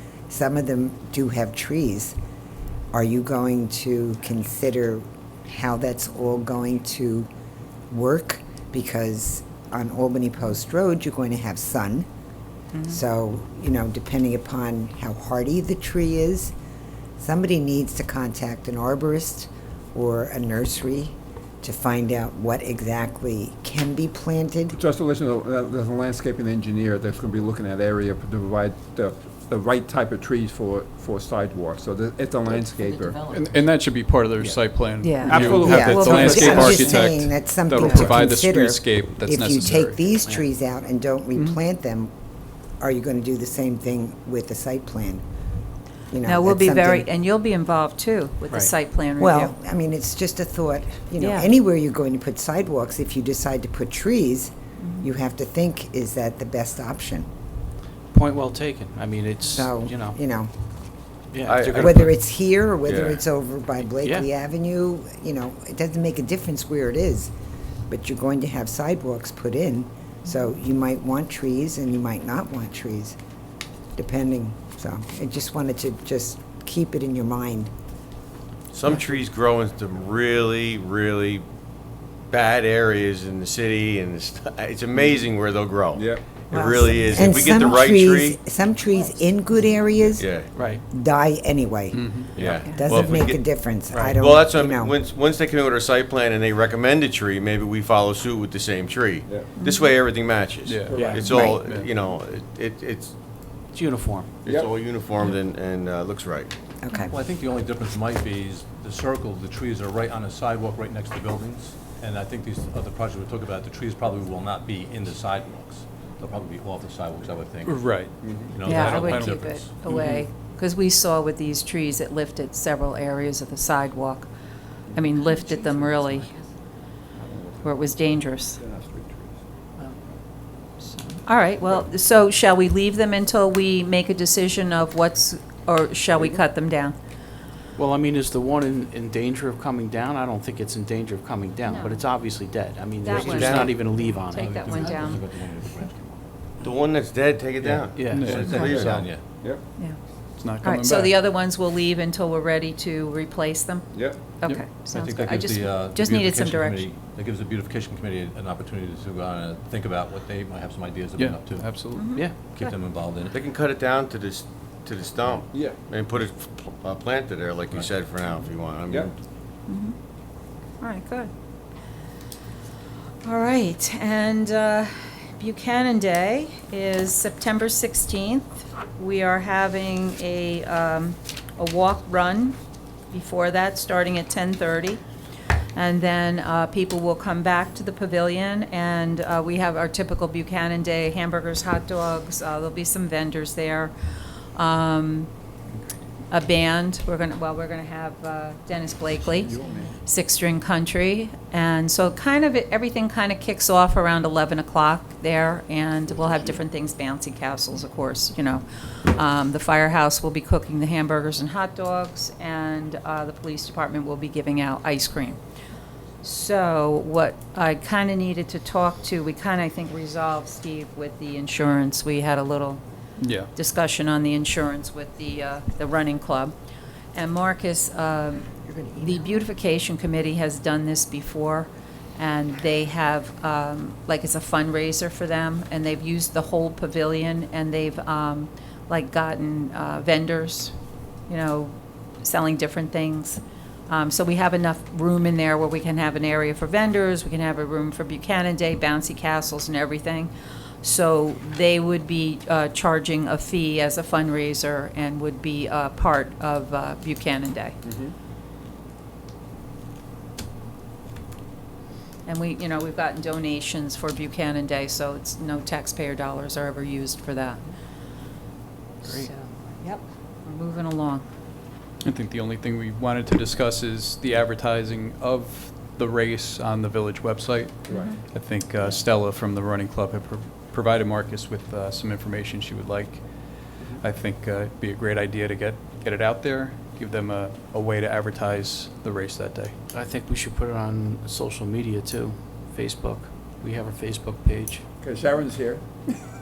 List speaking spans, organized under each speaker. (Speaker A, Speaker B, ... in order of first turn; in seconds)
Speaker A: 0.3-2.1, 2.9-7.3, 7.9-12.1, 12.9-16.5, 17.2-24.8, 35.7-42.1, 42.8-45.2, 46.1-47.1, 49.2-57.3, 59.6-60.5, 61.7-67.3, 67.9-73.2, 74.0-77.7, 86.5-90.3, 90.9-95.0, 101.2-101.6, 106.8-107.2
Speaker B: 12.7-13.0, 32.8-33.7, 35.0-36.4, 46.2-49.5, 51.2-51.6, 54.8-55.1, 92.5-92.9, 99.5-100.0, 118.6-124.3, 124.9-126.4, 127.6-128.6, 131.2-137.0, 141.7-142.1, 143.0-145.3, 149.7-156.9, 161.9-162.8, 169.7-170.0, 170.8-171.3, 173.2-182.6, 183.1-185.0, 185.7-195.3, 196.3-215.4, 216.2-222.8, 223.5-226.6, 227.1-240.8, 241.3-257.8, 262.2-267.7, 269.0-271.2, 277.9-278.3
Speaker C: 24.7-33.2, 34.4-36.9, 85.9-86.3, 99.3-99.5, 100.8-101.3, 104.5-104.8, 118.2-118.6, 127.2-129.4, 148.2-149.7, 153.9-154.3, 165.5-165.8, 199.4-199.9, 257.8-258.1, 277.9-278.2, 295.0-296.2
Speaker D: 33.3-40.1, 91.9-92.3, 92.9-93.1, 100.6-102.0, 117.6-119.4, 120.0-120.2, 148.1-148.6, 150.3-151.2, 161.2-162.1, 223.2-223.5, 272.0-289.8
Speaker E: 40.2-40.5, 48.5-48.7, 58.1-60.2, 61.3-62.2, 64.0-64.3, 90.5-90.8, 93.8-94.2, 103.7-104.4, 137.8-144.6, 147.9-148.3, 162.2-162.5, 269.0-269.3, 289.9-294.9
Speaker F: 61.4-62.0, 62.9-63.2, 78.7-81.5, 82.3-88.4, 90.2-90.5, 92.3-93.5, 94.2-103.2, 104.4-106.5, 143.1-143.9, 146.6-149.2, 163.3-169.2
Speaker G: 106.9-119.8, 144.3-146.2, 147.6-149.2, 154.9-163.3, 167.7-168.1